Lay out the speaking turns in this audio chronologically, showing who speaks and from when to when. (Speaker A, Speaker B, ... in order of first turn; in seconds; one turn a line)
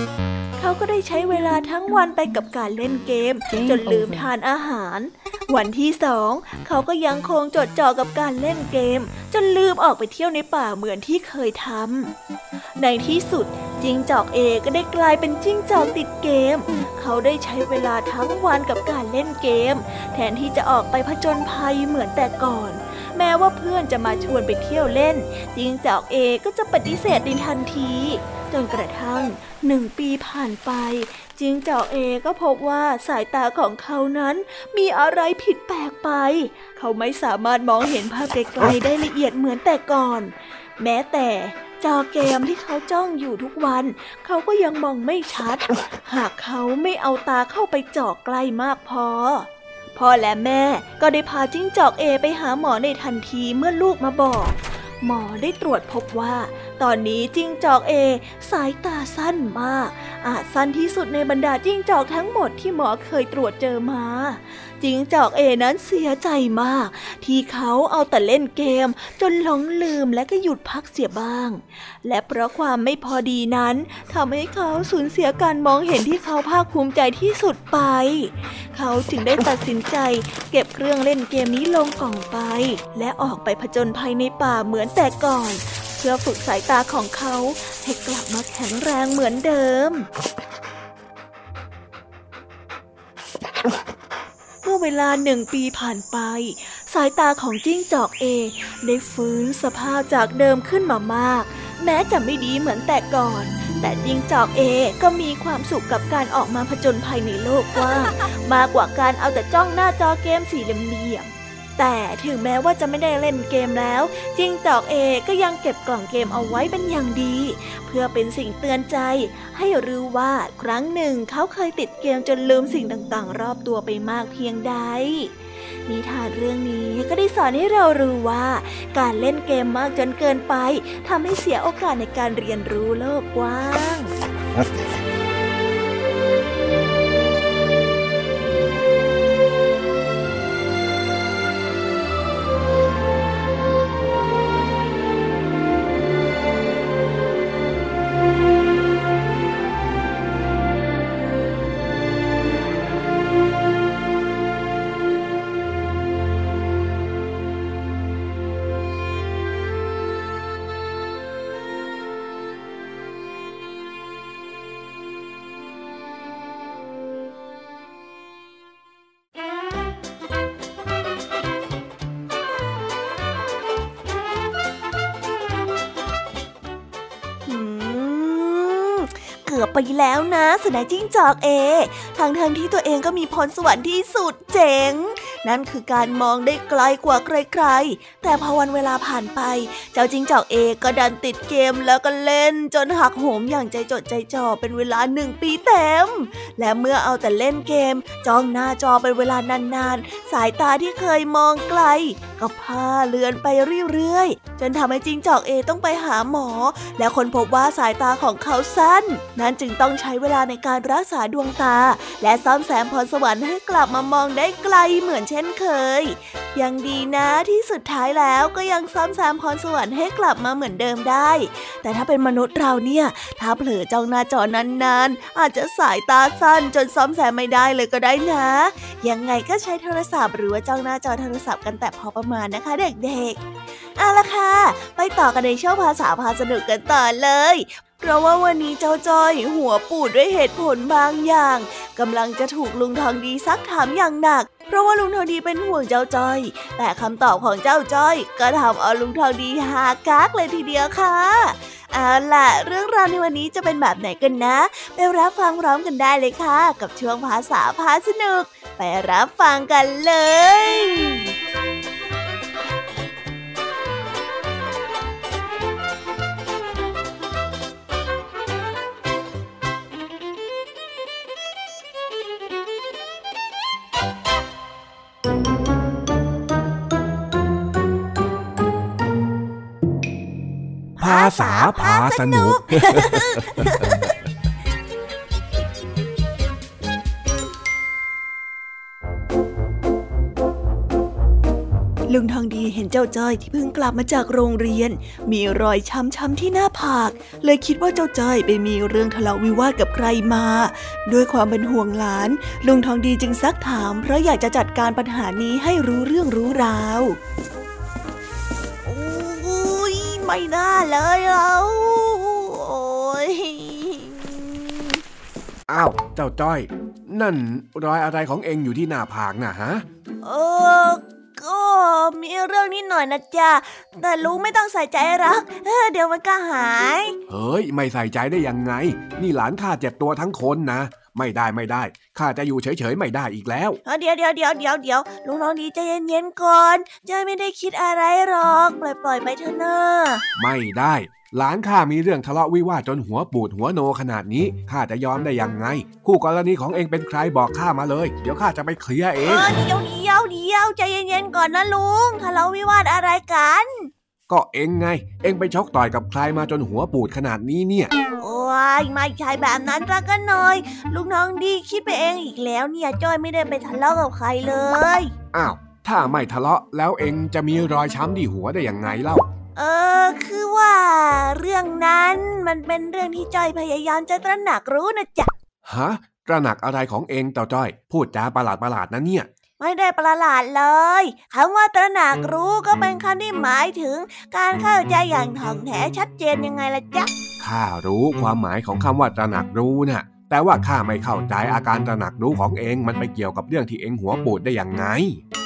Speaker A: 0.6-12.1
Speaker A: 12.8-90.1
Speaker A: 94.6-125.3
Speaker A: 125.8-134.1
Speaker A: 177.4-233.4
Speaker A: 233.9-261.3
Speaker A: 281.0-284.1
Speaker B: 281.0-283.9
Speaker A: 292.1-307.2
Speaker A: 308.8-315.0
Speaker B: 315.7-319.8
Speaker A: 320.2-327.1
Speaker B: 327.3-333.8
Speaker A: 333.8-340.2
Speaker B: 340.4-349.5
Speaker A: 349.3-353.9
Speaker B: 354.3-357.9
Speaker A: 358.2-365.1
Speaker B: 365.3-369.2
Speaker A: 369.6-375.3
Speaker B: 375.6-379.3
Speaker A: 379.6-387.1
Speaker B: 387.4-395.2